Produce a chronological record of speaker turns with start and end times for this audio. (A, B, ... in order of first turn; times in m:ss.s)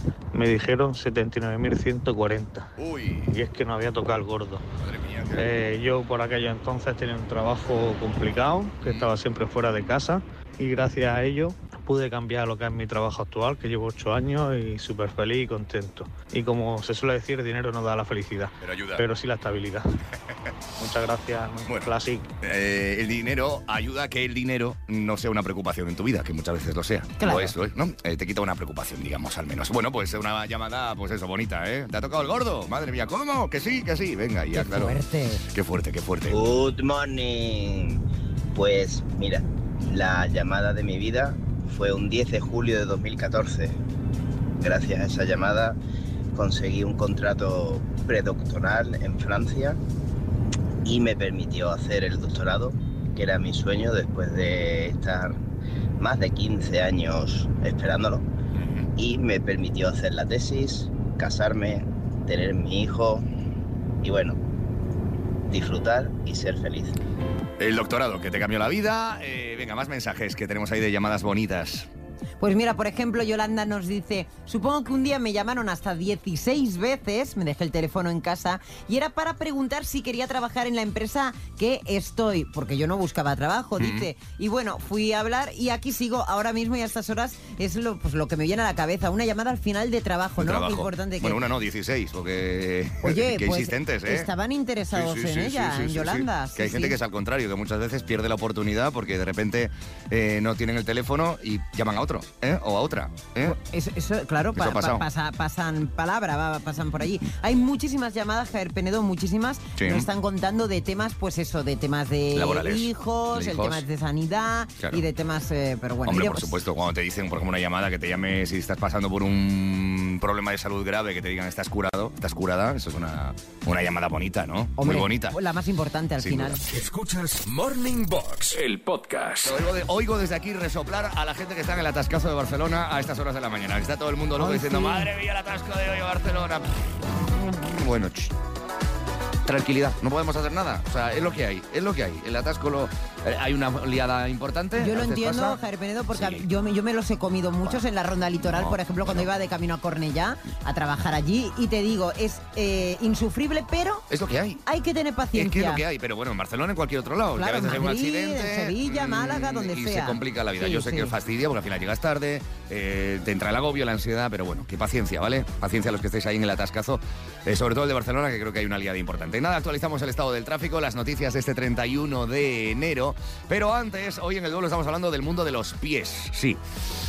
0:00.3-0:02.7 A
0:02.8-0:03.3 B
0:03.3-0:04.7 A
0:04.8-0:05.5 B
0:05.4-0:19.8 A
0:08.8-0:09.1 B
0:18.6-0:19.0 B
0:20.8-0:22.3 A
0:21.6-0:36.6 B
0:27.2-0:27.5 C
0:34.5-0:35.4 C
0:36.3-0:38.0 D
0:38.5-0:43.8 D
0:44.6-0:45.8 D
0:46.3-0:49.8 D
0:50.8-0:55.4 D
0:56.0-0:58.3 D
0:58.6-0:58.9 B
0:59.0-1:03.3 D
1:04.0-1:04.4 D
1:05.5-1:07.0 D
1:07.6-1:11.9 B
1:12.4-1:31.4 C
1:23.8-1:24.1 B
1:30.4-1:34.3 B
1:33.0-1:37.0 C
1:34.9-1:43.6 B
1:43.5-1:56.6 C
1:44.5-1:45.1 B
1:49.8-1:50.1 B
1:52.3-1:53.8 B
1:54.8-1:55.0 B
1:56.0-2:05.4 B
2:04.8-2:06.6 C
2:06.2-2:06.6 B
2:06.7-2:09.6 E
2:09.4-2:16.9 B
2:14.4-2:15.1 C
2:17.4-2:18.3 B
2:19.4-2:25.6 B
2:24.8-2:34.1 C
2:26.1-2:26.5 B
2:28.4-2:29.3 B
2:34.1-2:34.6 B
2:34.7-2:35.8 C
2:35.3-2:56.6 B
2:37.4-2:41.1 C